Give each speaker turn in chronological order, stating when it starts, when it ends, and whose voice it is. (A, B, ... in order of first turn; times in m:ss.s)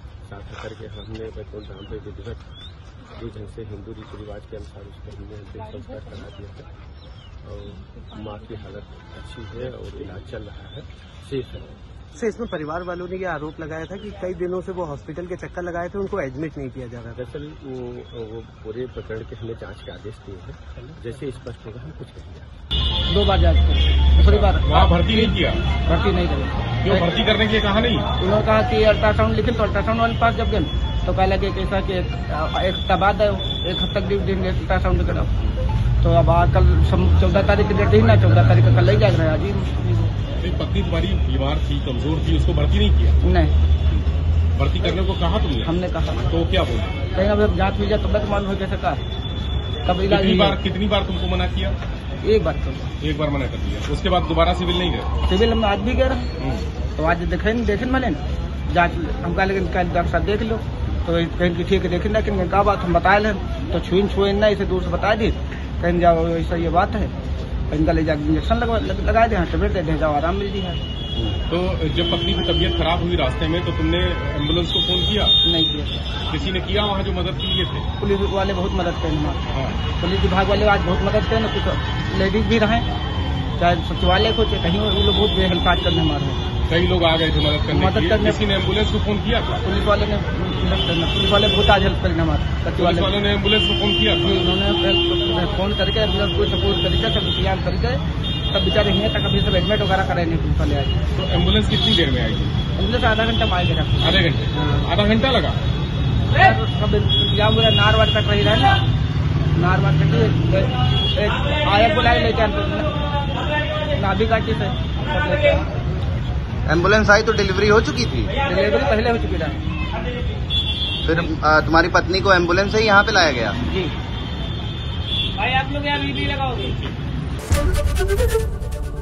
0:00.2-0:02.4 A
0:03.1-0:06.7 A
0:07.4-0:11.7 A
0:12.2-0:17.2 B
0:17.1-0:22.5 A
0:23.1-0:27.0 C
0:24.2-0:25.6 D
0:26.8-0:28.1 D
0:28.2-0:35.3 C
0:36.0-0:40.1 C
0:40.4-0:43.2 D
0:43.2-0:43.5 C
0:44.5-0:45.7 D
0:45.6-0:46.2 C
0:46.2-0:47.0 D
0:47.1-0:49.0 C
0:49.8-0:50.6 C
0:50.1-0:51.8 D
0:52.2-0:52.9 C
0:53.0-0:55.1 D
0:55.2-0:56.2 C
0:56.4-0:56.7 D
0:57.0-1:07.1 C
1:07.7-1:10.8 C
1:11.5-1:15.4 D
1:15.4-1:16.0 C
1:16.3-1:17.9 D
1:18.0-1:19.4 C
1:19.5-1:19.8 D
1:20.0-1:22.9 C
1:23.6-1:26.4 C
1:26.7-1:29.6 D
1:27.7-1:28.4 C
1:29.6-1:33.1 C
1:32.7-1:34.4 D
1:34.2-1:41.0 C
1:41.1-1:42.6 D
1:42.8-1:44.9 C
1:44.0-1:45.6 D
1:46.3-1:48.8 C
1:49.5-1:53.0 C
1:53.9-1:55.7 C
1:56.7-1:58.3 E
1:58.4-1:59.6 C
2:01.0-2:03.6 E
2:03.7-2:03.9 C
2:05.6-2:06.7 C